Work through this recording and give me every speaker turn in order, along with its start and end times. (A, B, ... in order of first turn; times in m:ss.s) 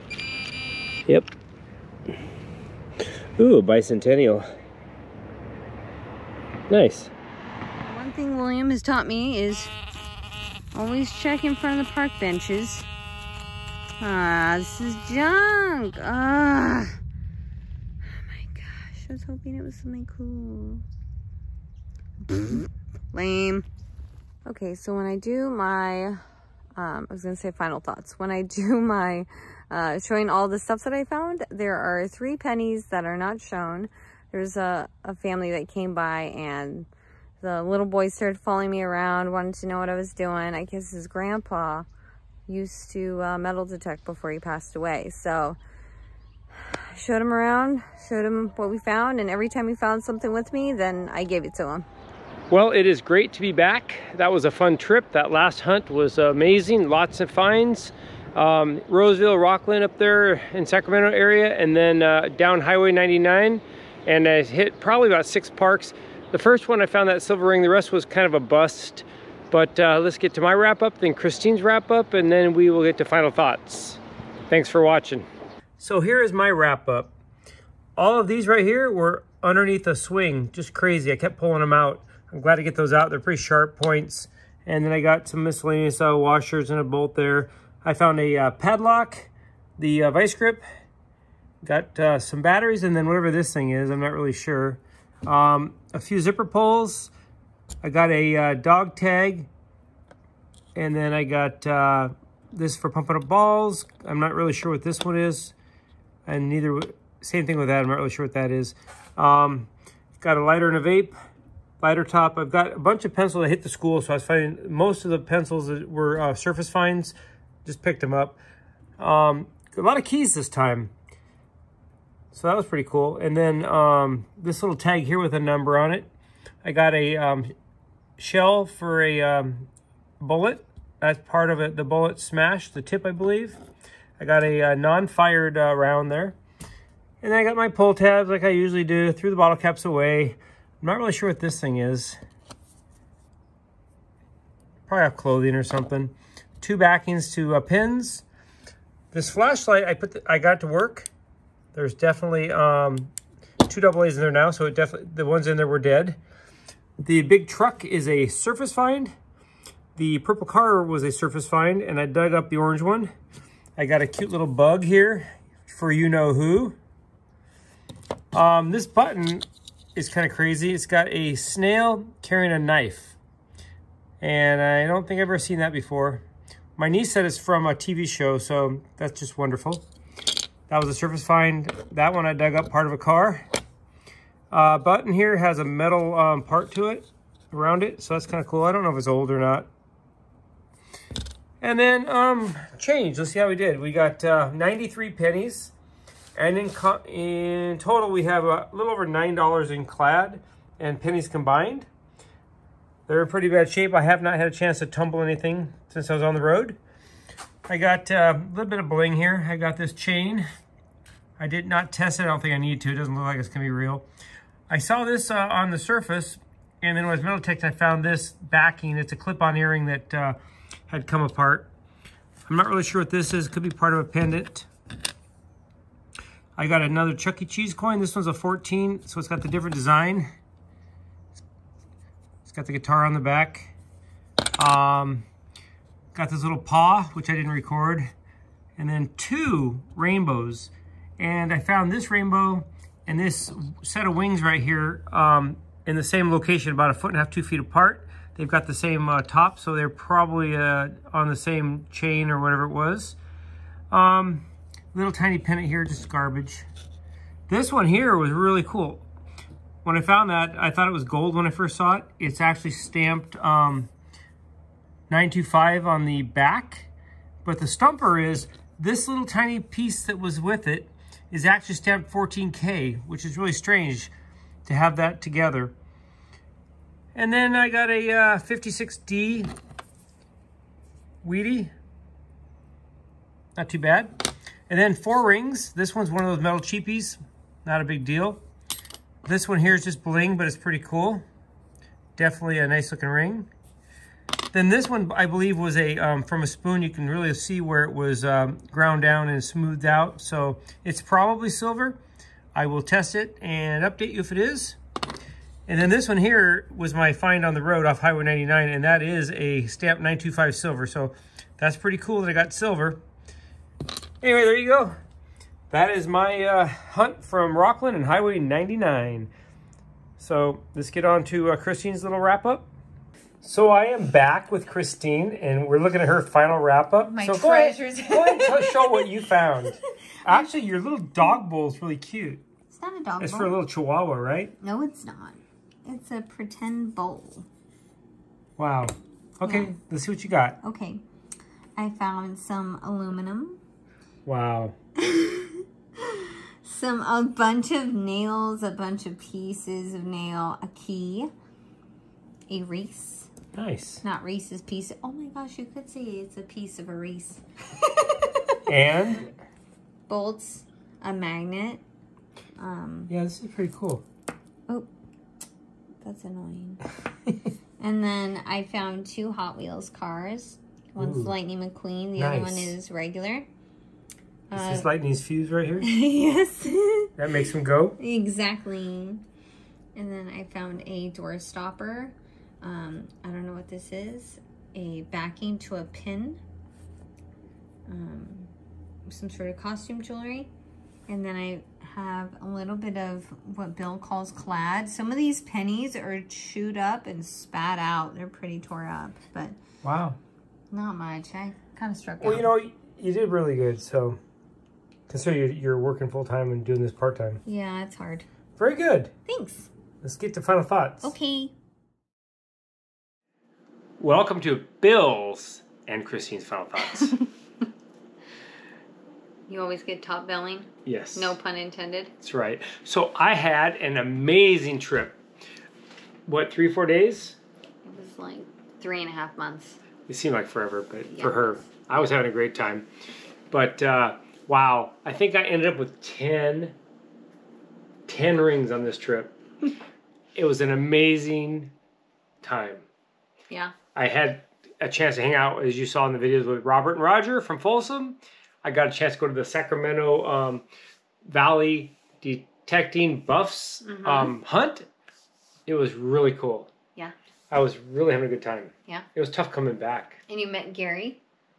0:03.4-0:04.5 A
0:06.7-0:07.1 A
0:07.8-0:09.7 B
0:10.7-0:12.9 B
0:14.0-0:16.9 B
0:18.1-0:20.8 B
0:22.3-0:23.7 B
0:24.4-0:26.2 B
0:26.8-0:36.9 B
0:37.4-0:41.9 B
0:42.5-0:45.6 B
0:46.6-0:51.9 B
0:52.5-1:15.3 A
1:15.8-1:17.1 A
1:18.0-1:30.6 A
1:31.6-1:37.1 A
1:37.8-1:39.5 A
1:40.8-1:45.6 A
1:46.3-1:49.7 A
1:50.2-1:51.1 A
1:51.8-1:58.4 A
1:59.0-2:00.9 A
2:02.3-2:06.1 A
2:06.6-2:07.5 A
2:08.2-2:09.7 A
2:10.2-2:13.6 A
2:14.2-2:16.4 A
2:17.2-2:22.2 A
2:24.9-2:28.2 A
2:29.1-2:31.1 A
2:31.7-2:33.1 A
2:33.6-2:36.2 A
2:37.0-2:39.2 A
2:40.0-2:43.1 A
2:43.8-2:46.8 A
2:48.3-2:53.2 A
2:54.2-2:56.2 A
2:56.8-2:59.8 A
3:00.7-3:03.5 A
3:04.5-3:09.7 A
3:11.6-3:15.7 A
3:16.4-3:21.9 A
3:23.1-3:26.8 A
3:27.7-3:30.5 A
3:31.4-3:34.1 A
3:34.7-3:40.4 A
3:40.9-3:41.7 A
3:42.5-3:44.7 A
3:46.6-3:50.3 A
3:52.5-3:53.7 A
3:54.6-3:55.3 A
3:56.1-3:58.1 A
3:58.8-4:13.2 A
4:13.9-4:16.7 A
4:17.5-4:19.0 A
4:19.8-4:23.9 A
4:25.1-4:26.9 A
4:27.4-4:34.1 A
4:34.6-4:35.7 A
4:37.2-4:39.5 A
4:41.2-4:41.7 A
4:43.6-4:44.1 A
4:44.7-4:48.4 A
4:49.2-4:51.2 A
4:52.2-4:53.5 A
4:54.5-5:02.0 A
5:02.6-5:04.8 A
5:05.7-5:13.0 A
5:14.2-5:15.0 A
5:15.7-5:19.3 A
5:20.2-5:22.7 A
5:23.4-5:32.4 A
5:27.0-5:29.1 B
5:32.7-5:33.5 B
5:33.2-5:34.6 A
5:34.6-5:37.5 B
5:38.6-5:40.6 A
5:39.4-5:39.7 B
5:40.6-5:41.0 B
5:41.8-5:43.6 B
5:44.3-5:44.8 A
5:45.0-5:51.3 B
5:52.5-5:53.3 B
5:53.6-5:54.0 A
5:54.0-5:58.6 B
5:58.7-5:59.3 A
6:00.1-6:01.8 B
6:02.6-6:03.1 B
6:03.1-6:04.0 A
6:06.0-6:06.8 B
6:07.8-6:13.5 B
6:11.0-6:11.3 A
6:12.2-6:12.8 A
6:14.5-6:14.9 B
6:14.5-6:15.9 A
6:15.8-6:17.1 B
6:17.2-6:18.0 A
6:18.0-6:19.2 B
6:20.0-6:26.4 B
6:27.9-6:28.5 B
6:29.1-6:30.5 B
6:31.1-6:39.6 B
6:39.8-6:40.2 A
6:40.7-6:42.5 B
6:42.2-6:44.2 A
6:45.1-6:47.4 A
6:47.4-6:48.3 B
6:48.6-6:49.1 A
6:49.3-6:49.7 B
6:50.0-6:51.2 A
6:51.0-6:51.5 B
6:54.0-6:57.1 A
6:56.9-6:57.3 B
6:59.5-7:02.1 B
7:00.8-7:01.4 A
7:02.2-7:05.2 A
7:06.3-7:07.4 A
7:07.8-7:09.8 B
7:10.1-7:12.9 A
7:11.1-7:11.9 B
7:13.5-7:16.8 A
7:18.1-7:19.4 A
7:20.4-7:21.7 A
7:22.4-7:22.8 A
7:24.0-7:30.6 A
7:31.2-7:34.9 A
7:33.8-7:34.3 B
7:35.7-7:36.7 A
7:37.5-7:40.2 A
7:40.3-7:41.2 B